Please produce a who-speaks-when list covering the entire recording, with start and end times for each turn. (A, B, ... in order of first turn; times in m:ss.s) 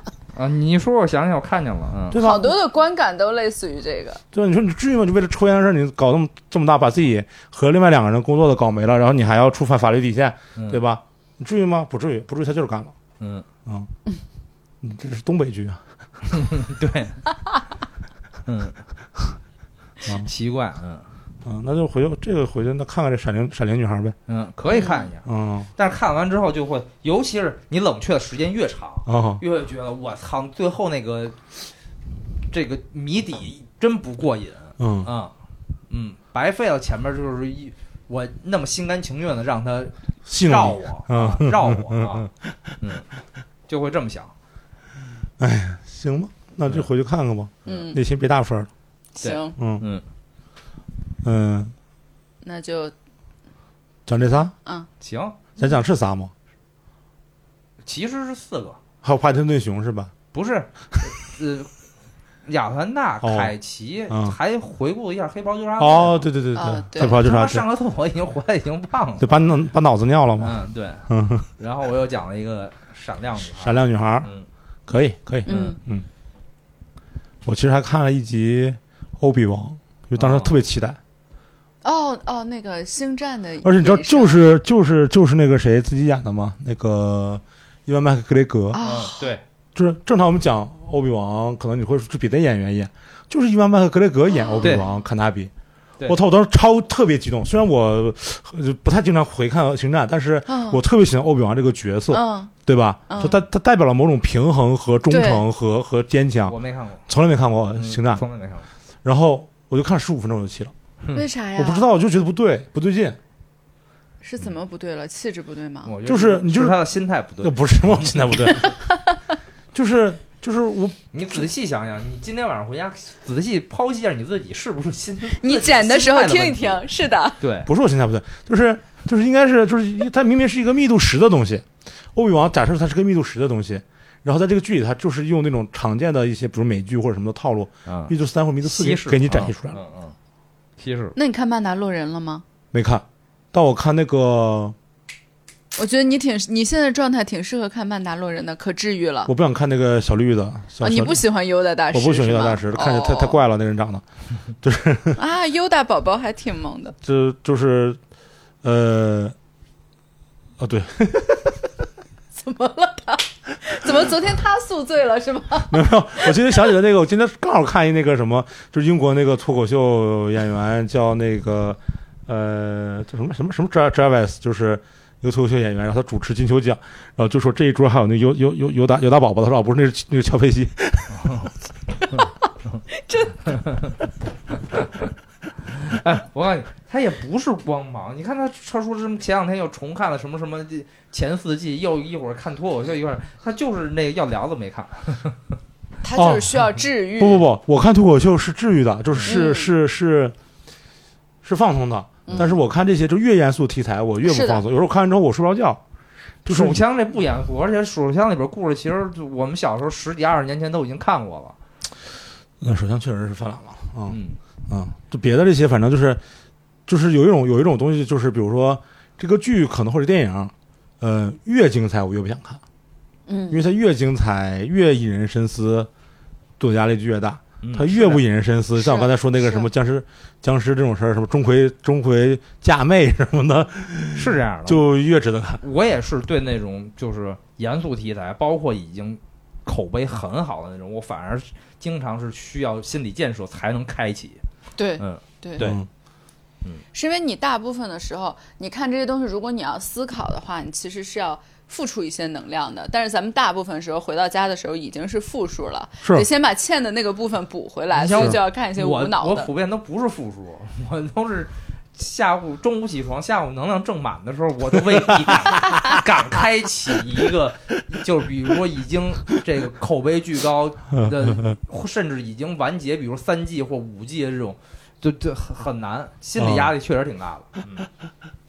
0:00.3-0:02.2 A
0:02.1-0:02.6 B
0:02.2-0:04.2 C
0:04.3-0:12.9 B
0:10.6-0:10.8 A
0:13.2-0:13.5 A
0:14.8-0:15.8 B
0:16.3-0:17.2 A
0:18.5-0:18.8 A
0:20.1-0:21.1 A
0:21.4-0:24.2 B
0:24.3-0:31.4 A
0:24.7-0:25.1 C
0:25.3-0:25.7 B
0:29.1-0:29.4 B
0:32.5-0:35.3 A
0:34.8-0:35.1 B
0:35.9-0:42.3 A
0:40.3-0:42.7 B
0:42.8-0:43.1 A
0:43.7-0:44.3 A
0:45.4-0:48.7 B
0:47.7-0:47.9 A
0:47.7-0:48.0 C
0:49.2-0:49.6 C
0:49.2-0:50.0 A
0:49.6-0:49.8 B
0:51.2-0:51.7 B
0:52.4-0:52.9 C
0:54.1-0:54.5 B
0:55.0-0:55.4 A
0:55.6-0:56.3 B
0:57.9-0:58.8 A
0:59.0-1:00.1 B
1:00.3-1:01.7 A
1:02.4-1:06.3 A
1:03.2-1:03.5 B
1:04.1-1:04.4 B
1:05.8-1:07.6 B
1:06.6-1:07.2 C
1:07.0-1:09.4 A
1:09.2-1:11.5 B
1:10.4-1:14.5 A
1:13.6-1:14.3 B
1:14.9-1:16.1 B
1:15.5-1:15.8 C
1:15.5-1:15.8 A
1:17.4-1:21.0 B
1:20.2-1:20.6 A
1:21.8-1:24.5 C
1:23.6-1:28.8 B
1:28.7-1:29.3 C
1:28.8-1:29.4 A
1:29.8-1:35.5 B
1:34.4-1:34.8 C
1:36.1-1:46.6 B
1:40.5-1:40.8 C
1:42.1-1:42.5 C
1:43.1-1:43.4 C
1:45.1-1:45.4 C
1:46.5-1:47.1 A
1:47.1-1:48.2 B
1:47.7-1:48.7 A
1:49.0-1:50.7 B
1:51.2-1:51.9 C
1:51.6-1:53.2 B
1:54.2-1:55.9 C
1:55.8-1:58.7 A
1:56.0-1:56.8 B
1:57.4-1:58.7 B
1:58.6-1:59.0 C
1:59.7-2:01.4 B
2:01.1-2:06.8 A
2:05.3-2:07.4 C
2:07.4-2:07.7 A
2:07.7-2:19.8 B
2:17.9-2:20.2 A
2:20.8-2:21.2 A
2:21.2-2:22.4 C
2:22.7-2:24.8 B
2:25.8-2:29.3 C
2:29.3-2:31.2 B
2:30.8-2:33.4 C
2:31.9-2:34.0 B
2:34.6-2:35.2 B
2:35.2-2:37.0 C
2:37.0-2:38.0 B
2:38.6-2:39.4 B
2:40.6-2:41.6 B
2:42.4-2:46.5 C
2:45.7-3:01.2 B
3:01.1-3:01.5 A
3:02.1-3:02.8 A
3:02.9-3:03.6 C
3:03.5-3:04.0 A
3:04.7-3:05.1 A
3:05.7-3:15.4 A
3:16.0-3:17.4 C
3:16.2-3:20.4 B
3:19.2-3:19.7 C
3:21.4-3:25.8 B
3:22.3-3:22.6 C
3:24.2-3:24.6 C
3:26.4-3:26.8 B
3:26.5-3:31.6 A
3:32.6-3:34.2 B
3:34.1-3:34.4 A
3:34.7-3:36.2 B
3:36.9-3:42.6 B
3:43.3-3:43.6 C
3:43.5-3:45.9 B
3:46.6-3:55.6 B
3:47.6-3:48.2 A
3:48.8-3:49.7 C
3:54.1-3:54.8 A
3:55.6-4:04.4 A
4:04.8-4:05.7 C
4:05.0-4:05.8 A
4:05.6-4:05.9 B
4:06.9-4:19.5 C
4:17.9-4:37.9 A
4:30.9-4:31.5 B
4:36.4-4:36.7 B